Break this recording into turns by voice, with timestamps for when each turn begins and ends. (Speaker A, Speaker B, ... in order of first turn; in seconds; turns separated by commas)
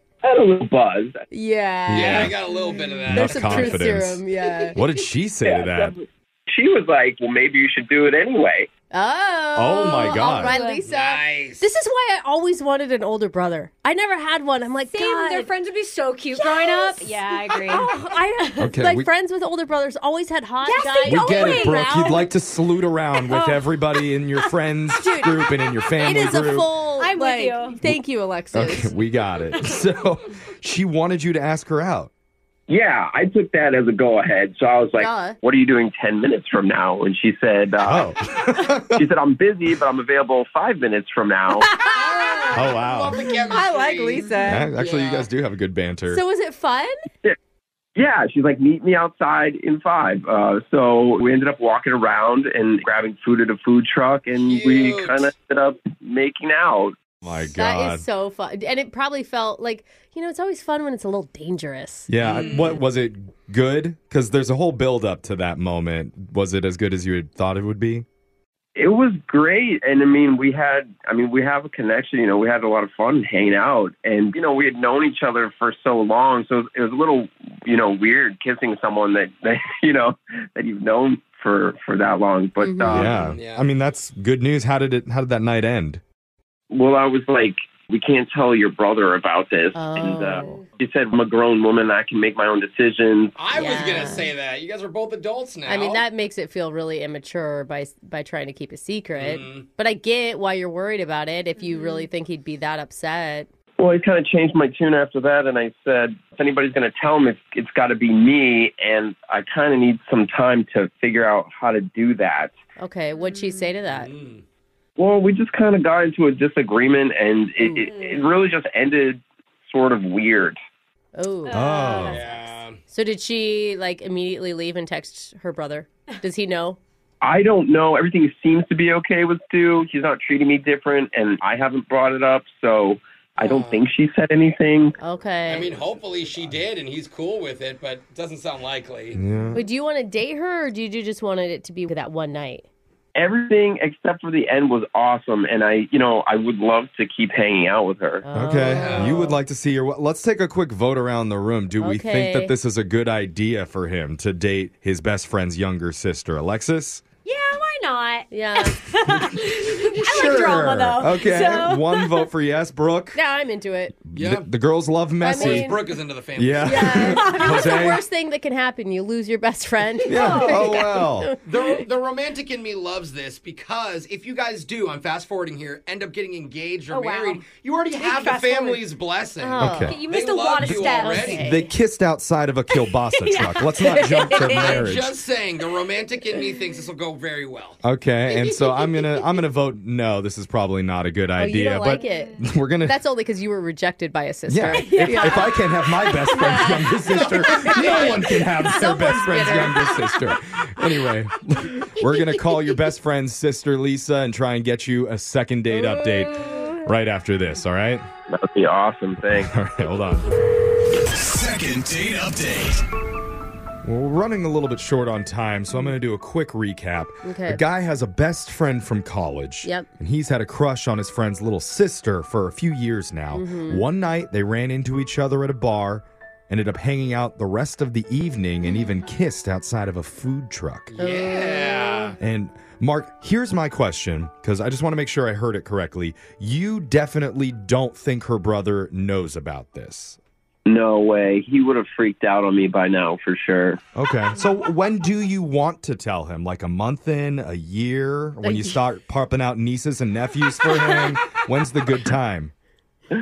Speaker A: 0.2-1.2, Speaker B: 1.3-2.3, Speaker C: 1.9-2.3, Speaker D: 1.9-3.9, Speaker C: 3.0-4.2, Speaker B: 3.1-4.8, Speaker C: 4.7-6.0, Speaker A: 5.4-8.7, Speaker B: 8.9-15.5, Speaker C: 9.5-10.6, Speaker E: 10.2-10.8, Speaker D: 10.9-11.6, Speaker E: 14.9-18.6, Speaker B: 16.3-22.3, Speaker C: 18.6-19.1, Speaker E: 20.6-22.2, Speaker C: 21.0-26.7, Speaker E: 23.3-23.6, Speaker B: 24.9-25.5, Speaker B: 26.0-28.9, Speaker E: 27.0-27.8, Speaker C: 28.5-32.1, Speaker A: 32.7-38.1, Speaker B: 35.0-35.4, Speaker C: 37.8-39.1, Speaker A: 38.9-41.7, Speaker D: 41.8-45.3, Speaker C: 42.5-43.1, Speaker B: 43.3-44.7, Speaker C: 44.4-46.2, Speaker B: 46.1-46.9, Speaker A: 48.0-57.0, Speaker D: 54.4-55.3, Speaker C: 57.2-58.0, Speaker B: 57.5-62.1, Speaker C: 62.1-68.0, Speaker D: 62.2-62.8, Speaker A: 68.8-83.2, Speaker B: 82.6-83.1, Speaker C: 82.9-86.0, Speaker D: 83.2-83.7, Speaker A: 86.7-93.8, Speaker B: 89.7-90.6, Speaker D: 93.3-96.0, Speaker B: 93.5-94.3, Speaker B: 95.7-103.5, Speaker D: 99.2-99.7, Speaker E: 101.6-102.0, Speaker A: 103.8-112.5, Speaker B: 112.8-114.1, Speaker E: 113.2-113.6, Speaker D: 113.8-114.4, Speaker A: 115.0-120.5, Speaker B: 117.6-117.9, Speaker E: 117.7-118.2, Speaker B: 121.2-122.3, Speaker E: 121.5-122.2, Speaker C: 121.5-122.2, Speaker D: 122.0-122.8, Speaker B: 122.9-126.8, Speaker A: 127.2-134.9, Speaker D: 133.4-133.8, Speaker B: 135.0-135.7, Speaker D: 135.5-139.2, Speaker C: 139.1-139.6, Speaker B: 139.5-142.7, Speaker A: 143.2-148.2, Speaker B: 148.2-149.4, Speaker C: 148.3-157.0, Speaker D: 148.6-149.3, Speaker B: 151.8-152.5, Speaker E: 157.2-162.3, Speaker B: 158.3-158.8, Speaker C: 159.1-163.2, Speaker B: 163.1-163.9, Speaker C: 164.1-165.8, Speaker D: 164.1-164.5, Speaker B: 165.2-165.8, Speaker D: 165.3-167.1, Speaker C: 166.3-168.0, Speaker B: 166.6-171.8, Speaker E: 170.1-170.9, Speaker C: 170.1-171.3, Speaker D: 171.4-181.4, Speaker E: 176.9-178.9, Speaker B: 179.4-180.0, Speaker C: 179.6-180.0, Speaker E: 179.9-181.6, Speaker C: 180.6-185.2, Speaker B: 180.8-181.7, Speaker E: 183.2-184.7, Speaker B: 183.9-184.3, Speaker D: 184.3-187.8, Speaker C: 187.8-193.0, Speaker B: 191.4-195.5, Speaker E: 191.9-192.3, Speaker C: 194.5-208.1, Speaker E: 194.7-198.6, Speaker B: 197.6-199.9, Speaker A: 208.3-209.5, Speaker C: 209.3-210.3, Speaker C: 211.2-212.8, Speaker C: 213.8-230.9, Speaker B: 217.2-217.6, Speaker B: 223.3-223.8, Speaker D: 230.9-232.2, Speaker B: 231.0-232.1, Speaker C: 232.2-240.2, Speaker A: 240.7-243.8, Speaker C: 243.9-252.5, Speaker B: 248.4-248.8